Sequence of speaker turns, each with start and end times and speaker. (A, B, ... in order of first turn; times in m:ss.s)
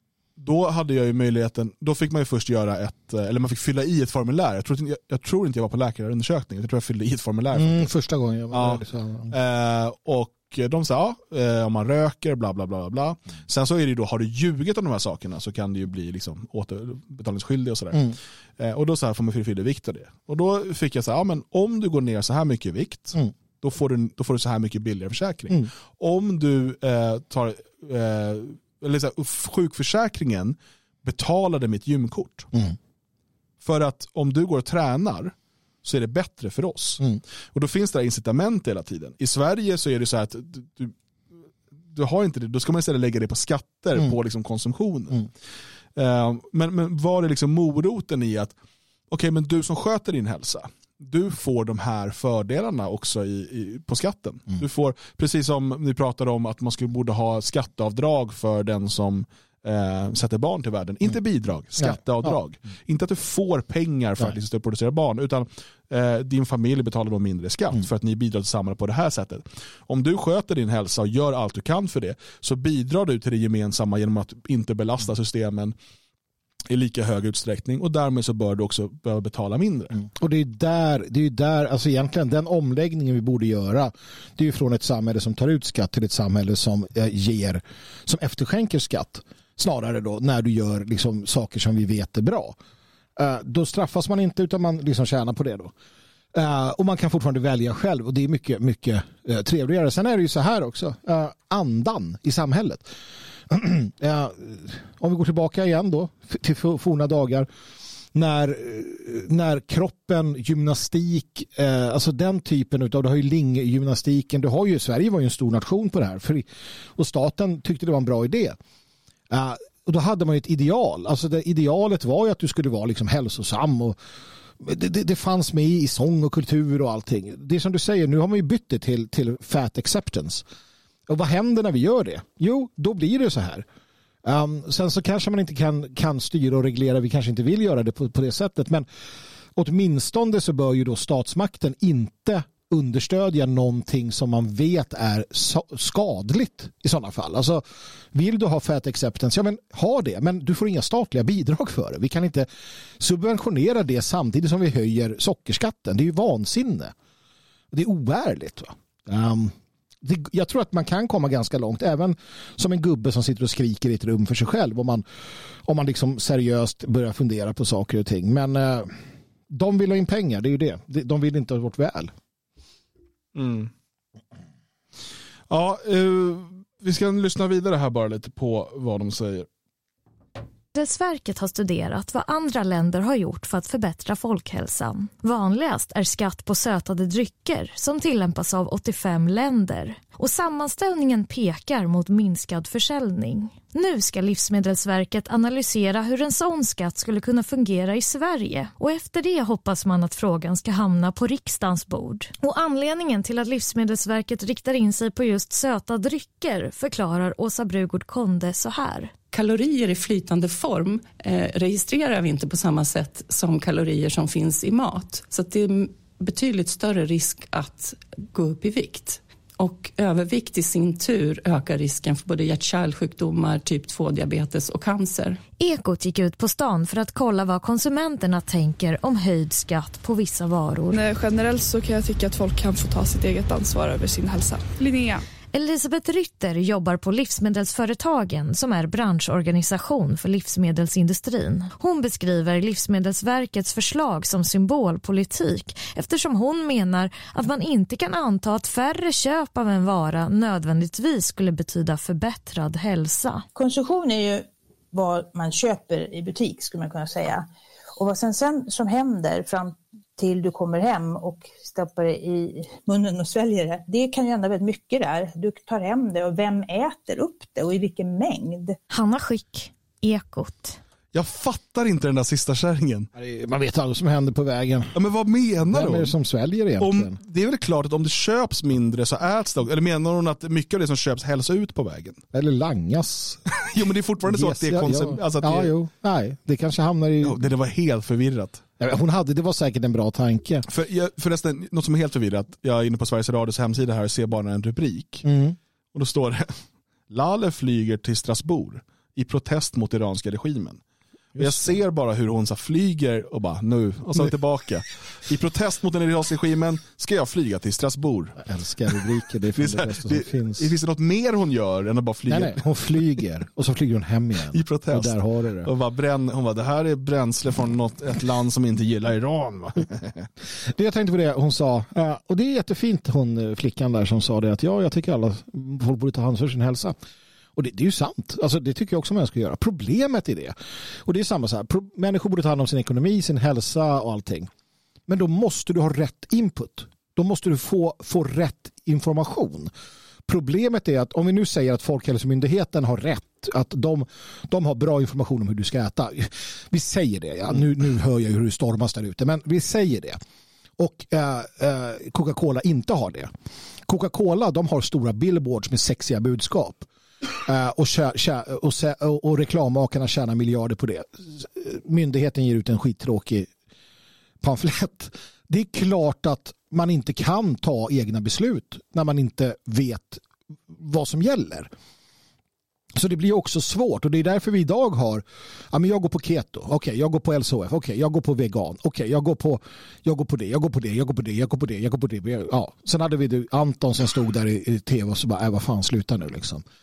0:00.4-0:07.9 A
0:07.5-0:09.3 B
0:08.5-0:32.5 A
0:33.6-0:41.0 A
0:41.9-0:45.3 A
0:46.0-0:48.6 A
0:49.1-1:15.8 A
1:01.8-1:02.3 B
1:16.7-1:20.0 A
1:20.0-1:32.6 B
1:33.2-1:35.7 B
1:36.3-1:42.9 B
1:43.5-1:47.5 B
1:48.1-1:58.6 B
1:59.3-2:04.0 B
2:04.6-2:10.4 B
2:11.1-2:13.7 B
2:14.2-2:18.9 B
2:19.6-2:32.5 B
2:33.0-2:36.9 B
2:37.7-2:45.0 B
2:45.6-2:48.9 B
2:49.5-2:52.1 B
2:53.4-2:53.7 A
2:55.5-2:59.5 A
3:00.7-3:29.1 C
3:29.3-3:45.4 D
3:45.6-3:51.0 C
3:50.9-3:55.2 E
3:55.5-4:13.4 C
4:13.6-4:17.5 F
4:18.0-4:28.8 F
4:28.9-4:30.8 C
4:31.1-4:33.1 A
4:33.2-4:34.9 B
4:34.9-4:36.1 A
4:35.7-4:37.2 B
4:36.8-4:42.2 A
4:42.3-4:43.5 B
4:43.5-4:45.7 A
4:44.2-4:47.5 B
4:47.2-4:48.6 A
4:48.8-4:50.7 B
4:50.7-4:55.3 A
4:55.2-4:55.6 B
4:55.9-5:00.8 A
5:01.4-5:01.8 B
5:01.4-5:08.4 A
5:08.4-5:10.7 B
5:09.5-5:12.9 A
5:12.3-5:15.7 B
5:14.5-5:20.3 A
5:20.6-5:27.0 B
5:27.6-5:34.5 B
5:35.1-5:39.7 B
5:40.3-5:50.2 B
5:50.8-5:53.3 B
5:53.9-5:56.9 B
5:57.4-6:03.5 B
6:04.4-6:11.7 B
6:13.0-6:26.6 B